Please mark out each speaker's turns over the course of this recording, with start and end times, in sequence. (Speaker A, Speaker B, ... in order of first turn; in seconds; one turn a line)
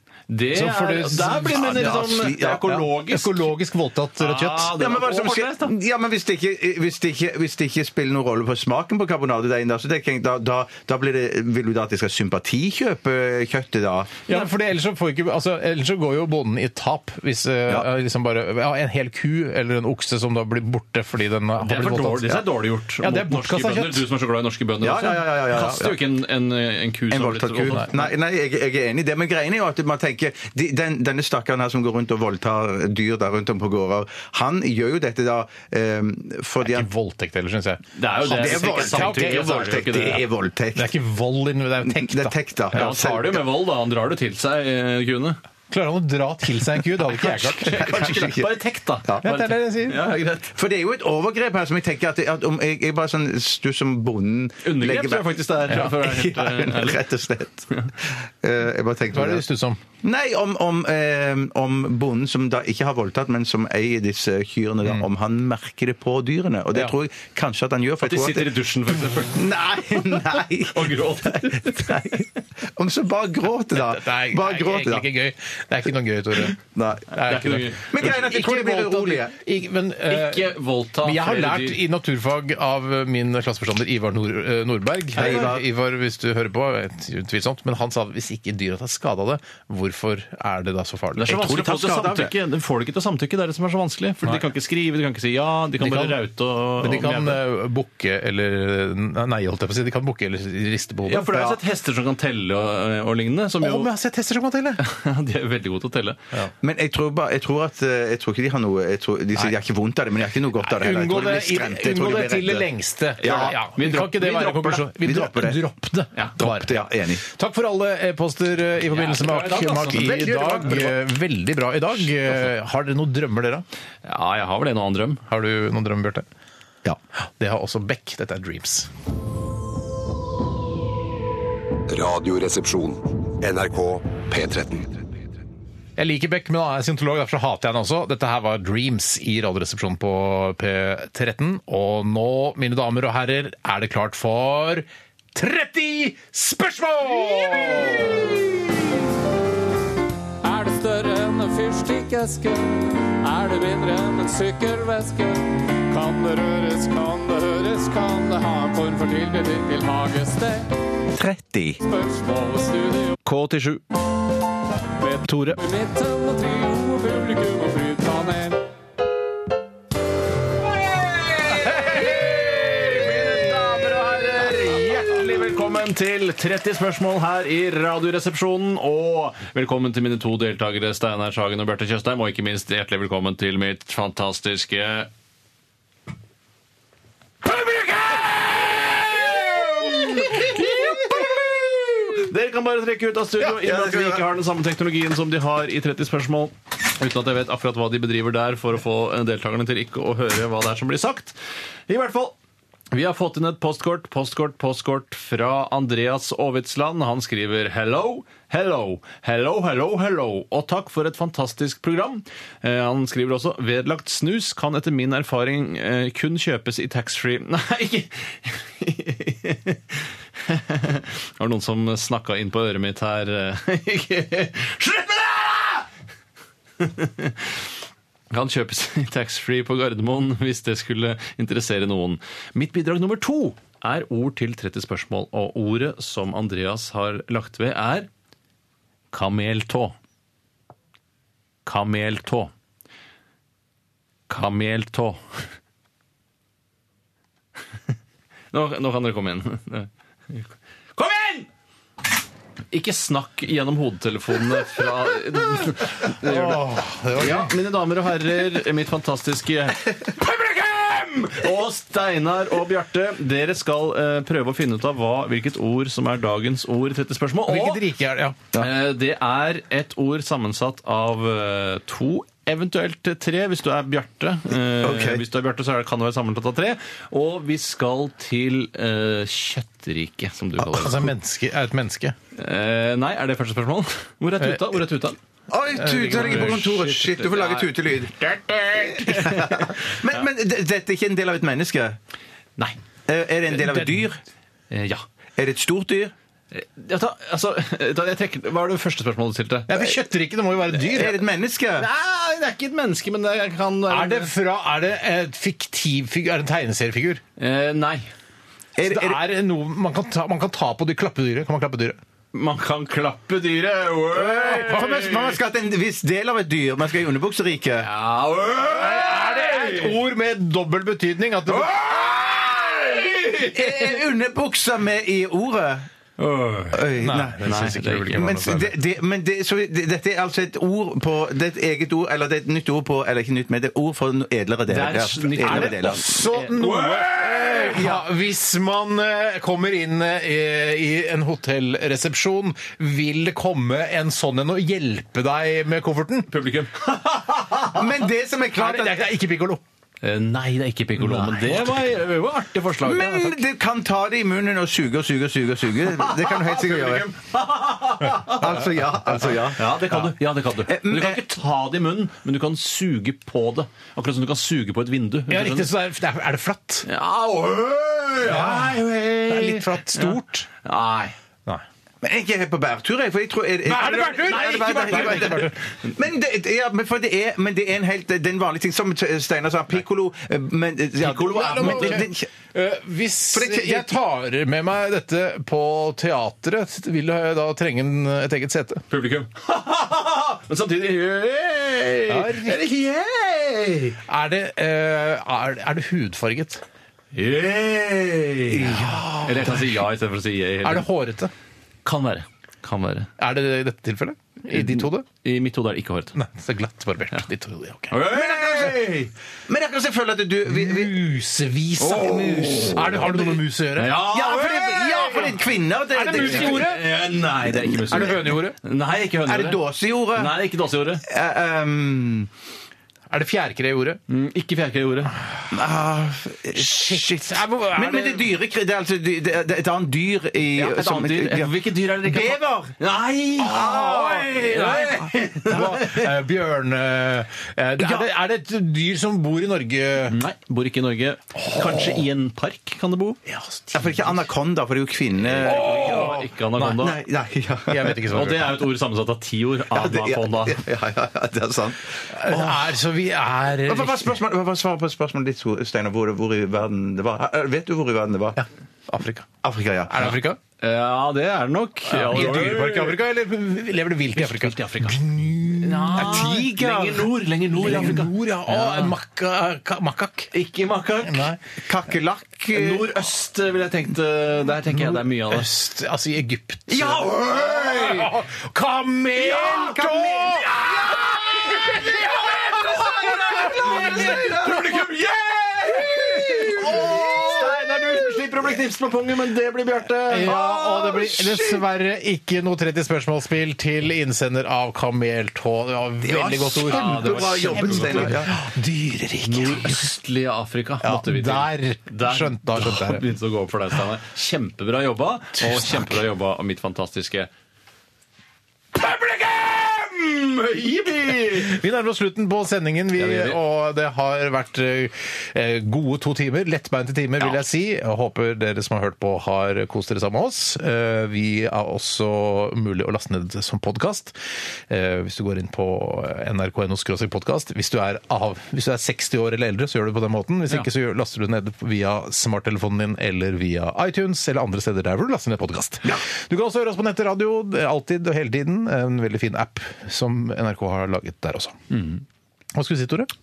Speaker A: 0.3-3.4
Speaker B: 0.5-2.2
Speaker C: 1.5-2.8
Speaker B: 3.1-4.8
Speaker A: 4.2-5.7
Speaker C: 4.7-14.3
Speaker B: 14.3-22.4
Speaker A: 21.6-27.9
Speaker B: 23.0-24.1
Speaker C: 24.8-26.0
Speaker C: 27.1-36.9
Speaker B: 27.7-28.0
Speaker B: 36.6-39.9
Speaker A: 37.9-40.2
Speaker C: 38.3-40.9
Speaker B: 40.8-42.9
Speaker C: 41.8-43.4
Speaker A: 42.7-45.4
Speaker B: 45.7-48.2
Speaker A: 47.1-50.5
Speaker C: 47.7-49.3
Speaker B: 49.2-50.1
Speaker C: 50.4-59.4
Speaker A: 54.6-57.0
Speaker B: 59.1-59.8
Speaker C: 60.0-68.5
Speaker A: 68.0-70.2
Speaker C: 69.3-75.0
Speaker A: 70.7-72.2
Speaker B: 73.7-76.6
Speaker C: 76.5-77.1
Speaker B: 77.1-91.4
Speaker A: 77.1-77.9
Speaker C: 77.8-79.3
Speaker A: 80.1-81.8
Speaker C: 85.2-85.7
Speaker A: 91.2-97.4
Speaker C: 91.3-92.3
Speaker B: 95.8-96.2
Speaker B: 96.8-101.3
Speaker A: 101.1-103.9
Speaker B: 103.6-104.8
Speaker A: 104.8-106.2
Speaker C: 106.6-112.7
Speaker B: 110.6-123.7
Speaker A: 113.2-114.9
Speaker C: 113.2-113.6
Speaker C: 115.0-115.6
Speaker C: 116.4-117.2
Speaker A: 118.9-120.8
Speaker C: 119.9-120.9
Speaker A: 124.0-125.2
Speaker B: 125.3-126.3
Speaker B: 127.4-128.9
Speaker D: 131.9-135.2
Speaker B: 136.0-148.4
Speaker E: 150.4-160.7
Speaker C: 161.2-161.8
Speaker E: 161.9-163.2
Speaker A: 163.2-163.8
Speaker A: 165.0-165.6
Speaker E: 165.6-168.6
Speaker A: 171.0-185.1
Speaker A: 187.4-201.4
Speaker C: 193.4-194.3
Speaker A: 201.9-202.3
Speaker A: 202.9-225.9
Speaker A: 226.8-227.6
Speaker A: 228.3-238.1
Speaker A: 239.1-240.0
Speaker A: 241.7-242.5
Speaker A: 244.3-245.5
Speaker A: 248.5-251.5
Speaker A: 252.7-256.6
Speaker B: 256.1-257.5
Speaker A: 257.1-267.9
Speaker B: 267.5-268.4
Speaker A: 268.5-281.1
Speaker C: 274.8-275.2
Speaker B: 280.6-282.2
Speaker A: 282.3-285.2
Speaker B: 284.4-284.8
Speaker C: 285.5-288.1
Speaker B: 285.8-286.8
Speaker A: 285.9-290.2
Speaker C: 288.7-292.0
Speaker C: 293.1-294.2
Speaker B: 293.6-294.0
Speaker A: 294.7-295.0
Speaker C: 295.4-296.1
Speaker A: 296.5-299.8
Speaker B: 299.7-301.2
Speaker C: 300.8-301.9
Speaker A: 301.8-304.3
Speaker B: 303.9-307.2
Speaker A: 307.4-308.1
Speaker C: 308.8-309.2
Speaker B: 308.9-312.0
Speaker A: 312.3-315.3
Speaker C: 314.1-317.9
Speaker B: 314.6-315.1
Speaker A: 317.8-319.9
Speaker B: 318.7-322.3
Speaker A: 321.5-323.8
Speaker C: 323.5-325.9
Speaker A: 326.2-326.9
Speaker C: 326.7-336.1
Speaker B: 327.0-328.8
Speaker A: 327.4-328.2
Speaker A: 334.7-337.7
Speaker B: 335.4-346.3
Speaker C: 337.5-338.1
Speaker A: 346.3-347.8
Speaker C: 347.7-349.0
Speaker B: 348.5-349.6
Speaker A: 350.0-353.4
Speaker B: 351.0-351.9
Speaker C: 352.8-357.1
Speaker A: 355.9-358.6
Speaker C: 358.3-360.1
Speaker A: 359.5-365.7
Speaker C: 360.7-361.2
Speaker B: 365.3-366.9
Speaker A: 366.9-371.1
Speaker B: 368.2-370.5
Speaker C: 372.0-382.3
Speaker B: 373.6-375.6
Speaker A: 374.3-375.5
Speaker A: 381.0-382.1
Speaker B: 381.2-388.8
Speaker C: 383.3-383.9
Speaker A: 388.9-394.0
Speaker B: 392.1-392.6
Speaker B: 394.1-396.6
Speaker A: 397.1-400.9
Speaker B: 398.6-399.8
Speaker B: 400.6-401.3
Speaker A: 401.9-403.1
Speaker B: 403.2-405.1
Speaker A: 404.5-406.2
Speaker B: 406.1-408.0
Speaker A: 407.9-409.1
Speaker C: 408.1-408.9
Speaker C: 409.5-411.1
Speaker B: 410.5-414.0
Speaker A: 411.8-413.1
Speaker C: 411.9-413.3
Speaker A: 413.8-415.4
Speaker C: 414.0-416.7
Speaker B: 415.9-416.8
Speaker A: 416.1-419.6
Speaker B: 417.8-418.6
Speaker C: 419.3-420.4
Speaker A: 420.1-421.0
Speaker C: 421.0-422.3
Speaker B: 423.1-424.0
Speaker A: 424.1-425.1
Speaker C: 425.5-432.8
Speaker B: 426.5-428.3
Speaker A: 430.6-436.1
Speaker B: 433.4-440.2
Speaker C: 433.4-434.7
Speaker C: 437.8-438.1
Speaker A: 440.1-443.2
Speaker B: 441.5-442.0
Speaker B: 443.3-444.3
Speaker C: 443.7-448.0
Speaker B: 445.4-446.2
Speaker A: 445.4-447.0
Speaker B: 447.7-448.7
Speaker A: 448.1-450.6
Speaker C: 449.7-452.7
Speaker B: 452.1-454.2
Speaker C: 453.7-458.4
Speaker B: 458.4-459.3
Speaker C: 459.4-460.2
Speaker B: 459.9-460.4
Speaker A: 460.6-463.0
Speaker B: 461.9-466.4
Speaker A: 464.2-468.9
Speaker C: 465.9-467.1
Speaker B: 467.6-470.3
Speaker A: 470.3-471.3
Speaker B: 471.0-471.4
Speaker C: 471.7-473.1
Speaker A: 472.5-475.5
Speaker B: 474.8-482.5
Speaker A: 476.7-478.1
Speaker C: 476.9-477.7
Speaker C: 479.2-482.0
Speaker A: 480.5-491.0
Speaker C: 482.6-484.6
Speaker B: 483.1-484.6
Speaker B: 486.4-487.6
Speaker C: 486.7-487.3
Speaker B: 490.1-499.9
Speaker C: 490.2-491.5
Speaker C: 496.0-498.4
Speaker A: 496.6-498.2
Speaker A: 499.2-507.3
Speaker B: 500.8-503.1
Speaker B: 505.4-506.0
Speaker A: 508.7-511.6
Speaker B: 511.3-524.2
Speaker A: 512.9-513.4
Speaker B: 524.7-541.7
Speaker A: 541.7-542.0
Speaker B: 542.5-543.1